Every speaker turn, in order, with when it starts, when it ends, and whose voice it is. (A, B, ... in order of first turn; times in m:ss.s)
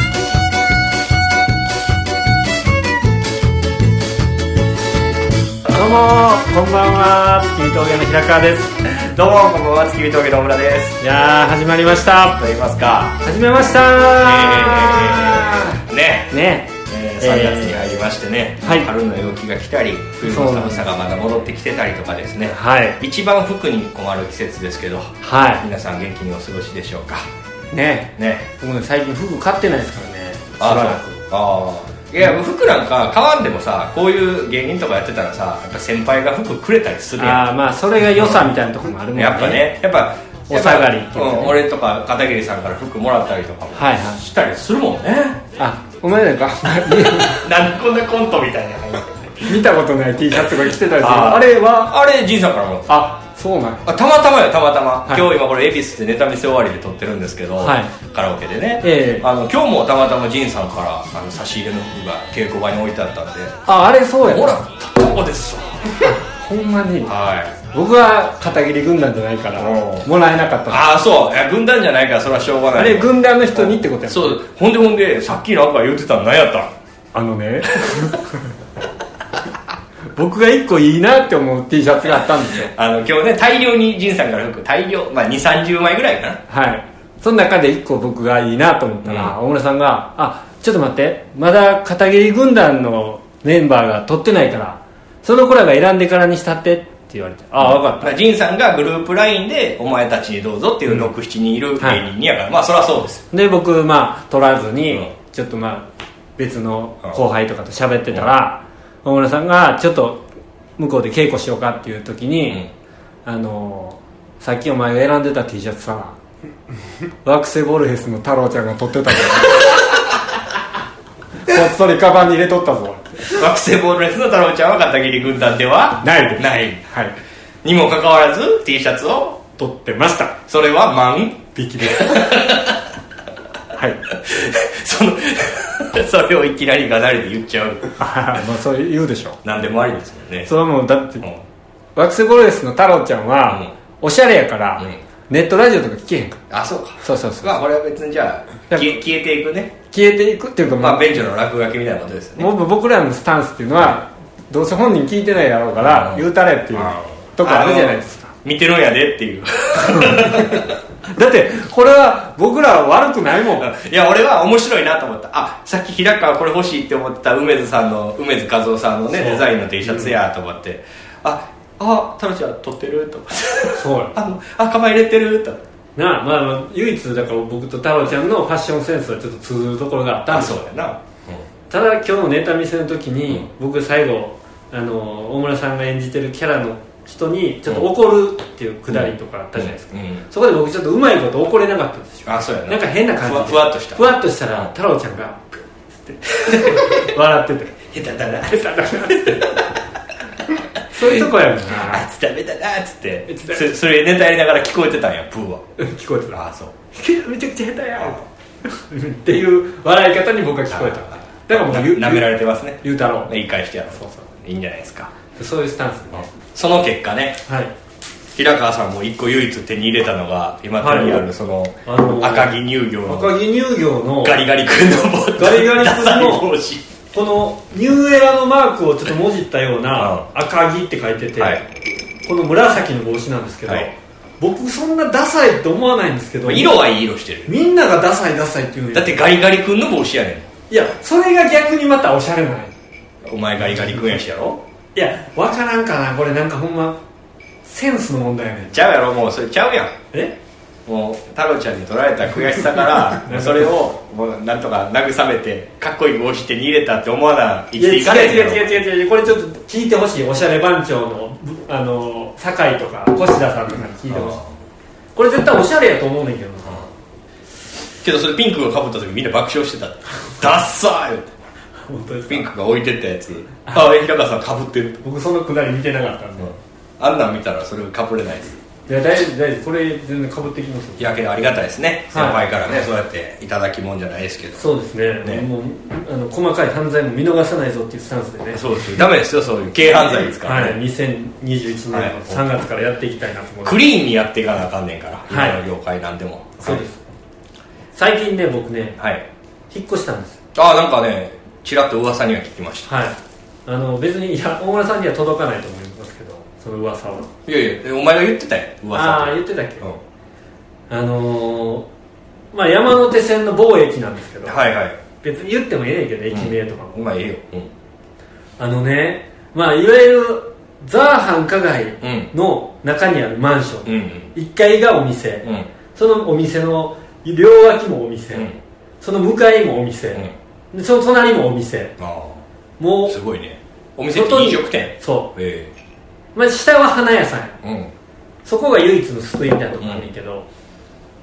0:05.7-0:08.7 A
0:08.8-0:11.0 B
0:11.0-0:12.4 A
0:12.4-0:13.2 B
0:13.2-0:17.8 A
0:14.2-0:27.3 B
0:18.6-0:18.9 A
0:20.2-0:20.9 A
0:22.5-0:23.0 A
0:25.2-0:25.6 A
0:27.7-0:31.2 A
0:28.2-0:28.5 B
0:30.6-0:37.5 B
0:37.2-0:39.6 A
0:38.1-0:38.5 B
0:39.1-0:45.4 B
0:40.5-0:41.6 A
0:43.7-0:44.2 A
0:45.6-0:47.4 A
0:47.2-0:49.6 B
0:49.4-0:51.9 A
0:50.4-0:53.0 B
0:52.9-0:53.9 A
0:53.8-1:03.6 B
0:57.6-0:57.9 A
0:58.8-0:59.2 A
1:03.6-1:04.6 A
1:04.2-1:06.2 B
1:06.0-1:07.1 A
1:07.0-1:07.6 B
1:07.7-1:10.8 A
1:09.6-1:10.0 B
1:10.7-1:16.7 B
1:12.7-1:14.4 A
1:17.1-1:18.5 A
1:17.8-1:18.1 B
1:20.2-1:22.7 A
1:22.7-1:26.4 B
1:26.5-1:38.2 A
1:29.0-1:29.3 B
1:37.6-1:43.2 B
1:41.8-1:42.1 A
1:43.3-1:50.2 A
1:50.8-1:52.6 A
1:53.2-1:56.2 A
1:57.2-1:59.8 A
2:01.4-2:03.3 A
2:03.3-2:06.8 B
2:06.0-2:07.1 A
2:07.6-2:09.4 B
2:09.6-2:10.4 A
2:10.5-2:12.8 B
2:11.5-2:12.3 A
2:13.7-2:14.0 A
2:14.1-2:18.0 B
2:18.0-2:19.4 A
2:19.4-2:20.5 B
2:20.4-2:21.3 A
2:22.0-2:26.4 A
2:26.5-2:29.7 B
2:27.0-2:27.6 A
2:28.7-2:29.0 A
2:29.9-2:31.2 A
2:30.8-2:32.5 B
2:32.4-2:38.3 A
2:35.8-2:40.8 B
2:39.8-2:43.6 A
2:43.6-2:55.6 B
2:49.1-2:50.2 A
2:53.8-2:54.2 A
2:56.0-3:00.6 A
3:00.3-3:01.4 B
3:01.7-3:17.8 A
3:08.9-3:10.2 B
3:12.2-3:14.7 B
3:16.4-3:17.1 B
3:17.9-3:19.7 B
3:18.5-3:19.6 A
3:20.9-3:22.0 A
3:21.0-3:25.6 B
3:23.3-3:23.6 A
3:25.8-3:26.4 A
3:26.3-3:26.7 B
3:26.9-3:32.3 A
3:30.7-3:35.1 B
3:32.8-3:33.3 A
3:33.9-3:34.3 A
3:35.3-3:36.3 A
3:36.1-3:37.4 B
3:37.4-3:37.7 A
3:38.3-3:43.3 B
3:40.8-3:41.2 A
3:41.8-3:44.4 A
3:44.2-3:46.8 B
3:45.4-3:46.5 A
3:47.1-3:51.6 A
3:50.0-3:50.2 B
3:51.4-3:51.6 B
3:52.2-3:56.7 A
3:56.4-3:57.5 B
3:57.4-3:59.2 A
3:58.9-4:00.5 B
4:00.7-4:02.7 A
4:03.2-4:04.6 B
4:03.8-4:04.1 A
4:04.9-4:07.0 A
4:07.6-4:08.8 A
4:08.7-4:09.9 B
4:10.8-4:18.8 B
4:13.2-4:13.7 A
4:17.8-4:24.4 A
4:24.1-4:24.5 B
4:25.1-4:26.8 A
4:28.0-4:31.3 B
4:31.9-4:32.4 A
4:32.3-4:35.0 B
4:35.0-4:36.5 A
4:36.4-4:38.6 B
4:38.9-4:41.1 A
4:41.0-4:44.7 B
4:42.1-4:42.4 A
4:44.6-4:48.8 A
4:48.5-4:50.8 B
4:50.4-4:53.8 A
4:51.9-4:52.4 B
4:53.6-4:56.8 B
4:55.3-4:55.6 A
4:56.6-4:57.0 A
4:57.9-4:59.0 A
4:59.0-4:59.2 B
4:59.7-5:00.4 A
5:00.5-5:02.9 B
5:02.8-5:07.3 A
5:07.4-5:10.0 B
5:08.9-5:09.8 A
5:10.9-5:11.9 A
5:12.5-5:14.6 A
5:14.4-5:15.0 B
5:15.2-5:17.0 A
5:16.3-5:17.7 B
5:18.6-5:32.0 A
5:22.0-5:22.3 B
5:23.8-5:24.3 B
5:32.0-5:32.4 B
5:32.8-5:33.2 A
5:33.1-5:35.7 B
5:34.1-5:35.3 A
5:36.3-5:37.6 A
5:37.6-5:37.9 B
5:38.4-5:40.4 A
5:39.8-5:40.0 B